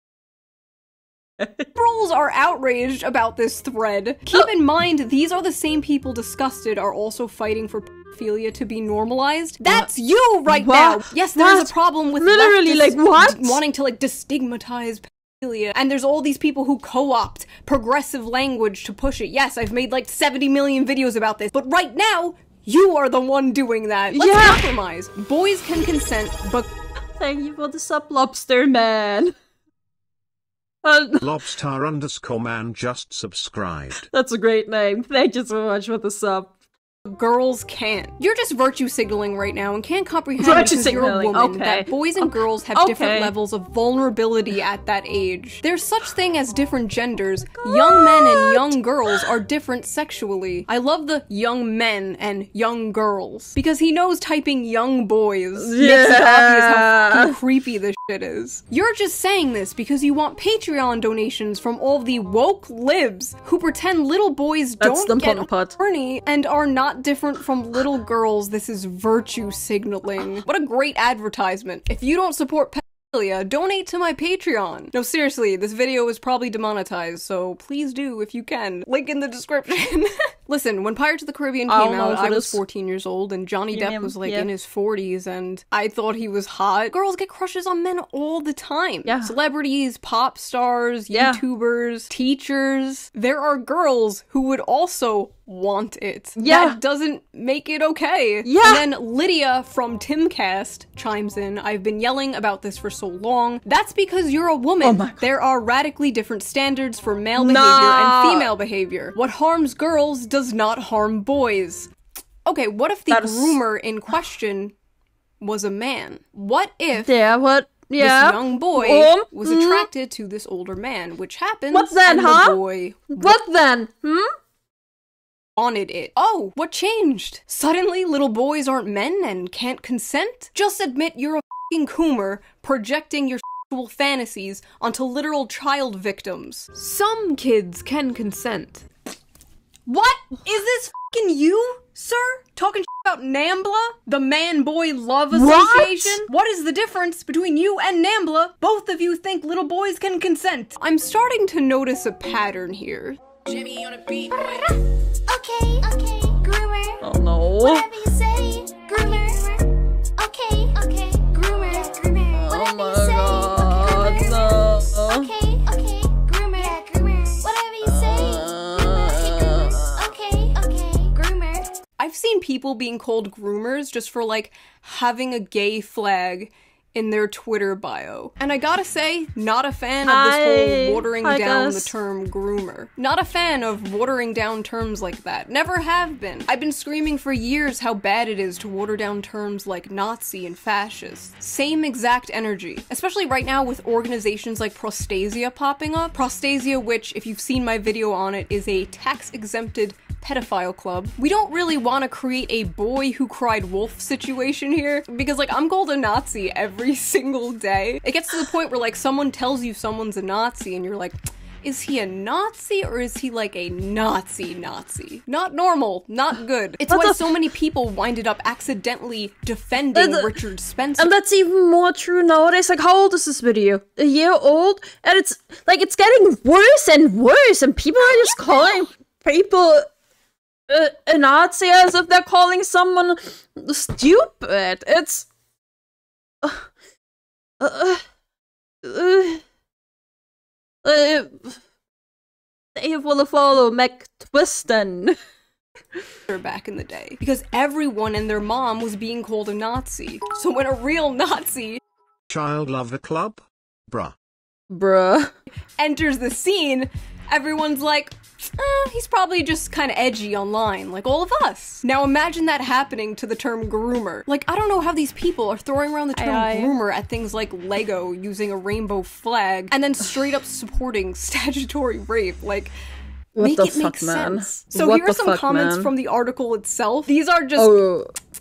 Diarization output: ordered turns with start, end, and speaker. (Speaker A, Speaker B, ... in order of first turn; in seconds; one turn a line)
Speaker A: 1.4-1.7
Speaker B: 1.8-26.7
Speaker A: 10.5-13.6
Speaker A: 24.1-24.7
Speaker A: 27.2-29.3
Speaker A: 30.8-31.3
Speaker C: 31.2-34.1
Speaker A: 34.1-36.5
Speaker B: 37.1-111.9
Speaker A: 40.4-43.3
Speaker A: 47.7-49.2
Speaker A: 55.6-57.3
Speaker A: 64.8-65.7
Speaker A: 81.7-82.6
Speaker A: 83.7-84.5
Speaker A: 89.0-89.3
Speaker A: 91.1-91.4
Speaker A: 96.4-96.8
Speaker A: 98.5-98.8
Speaker A: 104.8-105.3
Speaker A: 107.4-108.5
Speaker B: 112.5-114.7
Speaker A: 113.1-113.6
Speaker B: 115.4-117.1
Speaker A: 117.0-119.9
Speaker B: 118.0-123.4
Speaker A: 121.7-122.6
Speaker A: 123.1-124.3
Speaker B: 125.6-138.9
Speaker B: 139.9-154.6
Speaker A: 145.3-146.2
Speaker D: 155.3-157.0
Speaker B: 155.4-156.7
Speaker A: 157.0-158.0
Speaker D: 157.6-159.7
Speaker D: 160.2-171.7
Speaker A: 162.3-165.3
Speaker A: 167.8-170.1
Speaker B: 172.0-221.1
Speaker A: 180.1-181.9
Speaker A: 216.9-217.3
Speaker A: 219.9-220.3
Speaker A: 221.0-229.9
Speaker A: 230.7-235.3
Speaker A: 237.6-238.0
Speaker A: 238.8-239.4
Speaker A: 240.8-241.6
Speaker A: 242.8-245.2
Speaker B: 246.3-251.8
Speaker C: 252.3-254.2
Speaker A: 254.7-255.3
Speaker B: 255.8-272.7
Speaker A: 266.2-266.8
Speaker A: 273.4-275.9
Speaker B: 273.4-277.8
Speaker A: 277.6-278.1